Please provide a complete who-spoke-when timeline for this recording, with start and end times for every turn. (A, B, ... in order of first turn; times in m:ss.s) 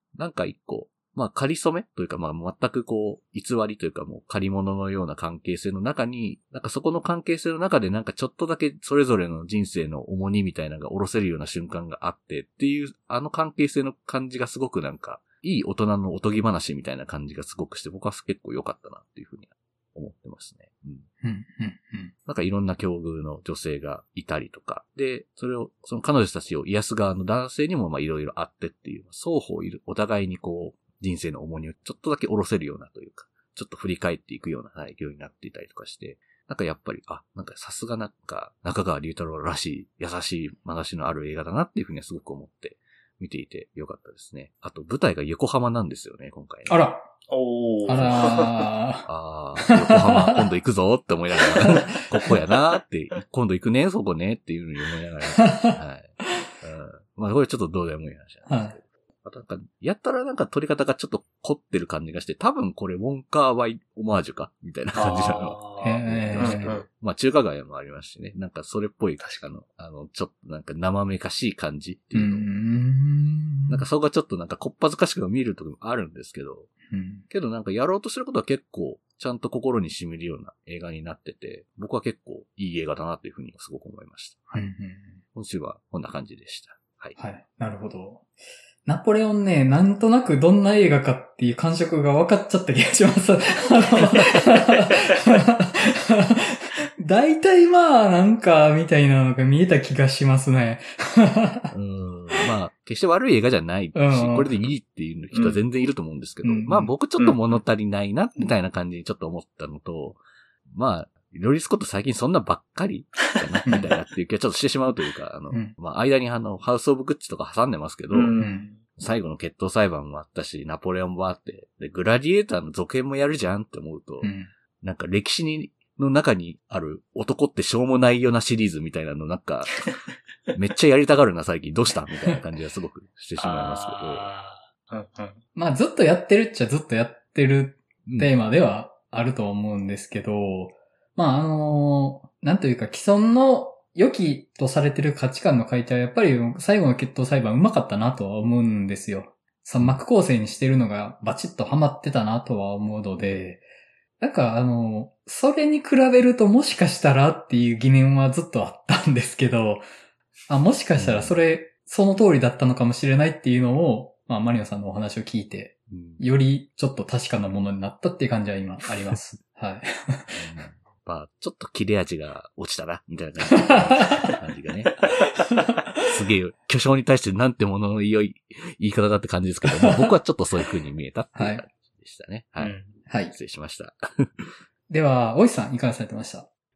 0:00.2-0:21.1 A
0:21.2-0:22.1 B
0:22.2-0:46.8 A
0:46.7-0:47.0 B
0:47.3-0:48.5 C
0:47.8-0:49.1 B
0:47.9-0:48.5 A
0:49.0-1:12.5 A
0:49.6-0:50.4 B
0:51.6-0:51.9 B
0:55.4-0:55.8 B
0:58.5-0:58.8 B
1:04.9-1:06.9 C
1:05.8-1:06.7 B
1:12.1-1:13.9 B
1:13.7-1:16.7 A
1:16.9-1:17.2 B
1:17.3-1:24.6 A
1:24.5-1:25.2 B
1:25.3-1:27.2 A
1:27.2-1:28.2 B
1:28.8-1:41.7 B
1:41.7-1:58.3 A
1:43.9-1:44.5 B
1:45.3-1:45.6 C
1:46.4-1:46.9 B
1:47.2-1:47.6 C
1:53.6-1:53.9 B
1:58.1-1:58.8 C
1:58.4-1:58.7 B
1:59.0-2:09.9 A
2:04.2-2:04.5 B
2:10.5-2:14.3 A
2:13.4-2:15.4 C
2:15.6-2:33.6 B
2:18.0-2:18.3 A
2:34.2-2:39.8 B
2:40.5-2:50.5 B
2:41.0-2:41.4 A
2:45.9-2:46.2 A
2:50.3-2:55.1 A
2:53.6-2:54.2 B
2:55.5-2:55.8 B
2:56.0-3:02.8 A
2:59.8-3:00.0 B
3:01.4-3:01.6 B
3:02.6-3:02.9 C
3:03.1-3:03.3 B
3:03.3-3:04.5 A
3:04.9-3:06.5 B